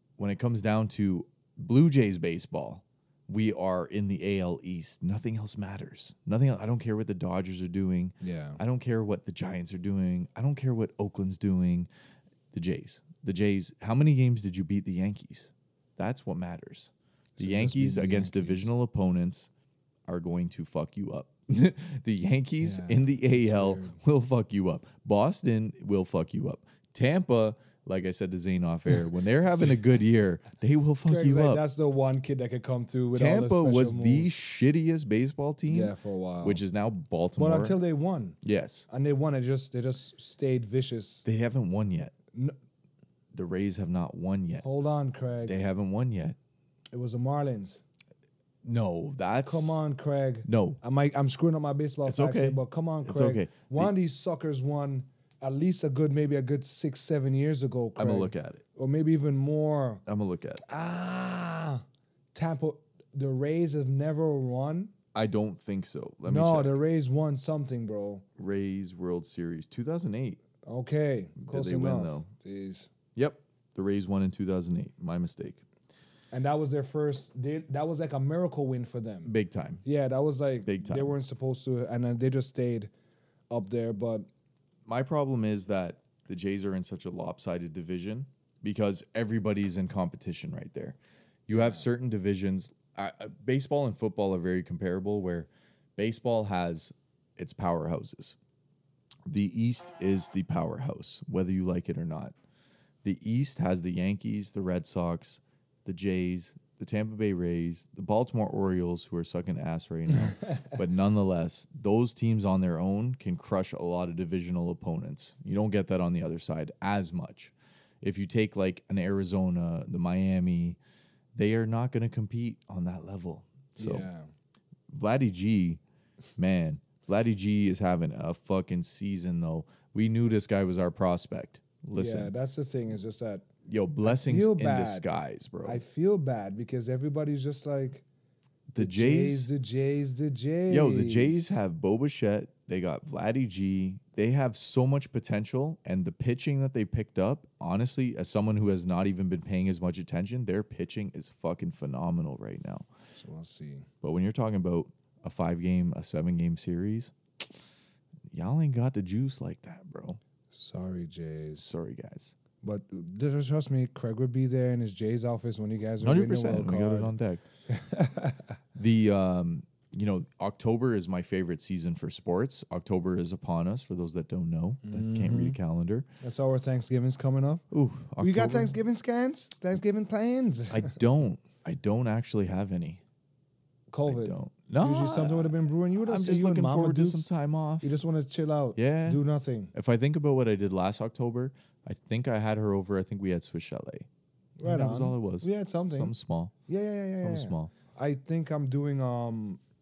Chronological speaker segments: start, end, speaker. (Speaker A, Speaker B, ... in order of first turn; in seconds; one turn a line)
Speaker A: 0.2-11.9
Speaker B: 8.2-8.6
Speaker A: 12.5-19.5
Speaker B: 17.4-18.7
Speaker A: 20.1-31.6
Speaker B: 22.6-24.0
Speaker B: 31.1-34.4
Speaker A: 33.1-37.8
Speaker B: 35.7-36.6
Speaker B: 37.4-38.4
Speaker A: 38.4-38.9
Speaker B: 38.9-41.2
Speaker A: 41.2-42.1
Speaker A: 43.3-44.6
Speaker B: 44.6-45.6
Speaker A: 45.5-46.4
Speaker B: 46.9-47.8
Speaker A: 48.6-49.8
Speaker B: 49.4-60.0
Speaker A: 50.5-50.8
Speaker A: 52.1-53.9
Speaker A: 58.0-58.6
Speaker A: 60.1-60.6
Speaker B: 60.7-61.8
Speaker B: 62.3-64.9
Speaker A: 65.1-66.8
Speaker B: 66.3-68.2
Speaker A: 68.4-70.4
Speaker B: 70.7-72.9
Speaker A: 71.4-72.3
Speaker A: 73.2-75.6
Speaker B: 76.3-79.3
Speaker A: 79.2-79.8
Speaker B: 79.8-82.9
Speaker A: 80.7-81.1
Speaker B: 83.5-84.3
Speaker A: 84.9-91.0
Speaker A: 91.5-98.4
Speaker B: 91.5-91.8
Speaker A: 99.3-102.3
Speaker A: 103.0-120.8
Speaker A: 121.3-124.1
Speaker B: 123.8-124.3
Speaker A: 124.9-125.8
Speaker A: 126.4-132.3
Speaker B: 131.9-133.5
Speaker A: 133.7-135.8
Speaker B: 134.0-135.1
Speaker B: 135.6-138.0
Speaker A: 138.7-139.5
Speaker B: 138.8-141.6
Speaker A: 140.7-152.9
Speaker B: 153.2-153.9
Speaker A: 154.0-157.1
Speaker A: 158.3-160.2
Speaker B: 160.5-161.7
Speaker A: 161.6-162.3
Speaker B: 162.6-167.1
Speaker A: 166.0-167.4
Speaker B: 167.7-168.4
Speaker A: 168.8-176.1
Speaker B: 174.8-175.6
Speaker B: 176.2-177.6
Speaker A: 177.7-178.8
Speaker B: 178.2-181.0
Speaker A: 180.7-183.0
Speaker B: 183.9-187.3
Speaker A: 184.1-187.9
Speaker B: 187.8-189.7
Speaker A: 188.8-189.2
Speaker A: 189.7-194.1
Speaker B: 194.6-196.1
Speaker A: 194.6-196.5
Speaker B: 196.7-199.6
Speaker A: 197.2-197.7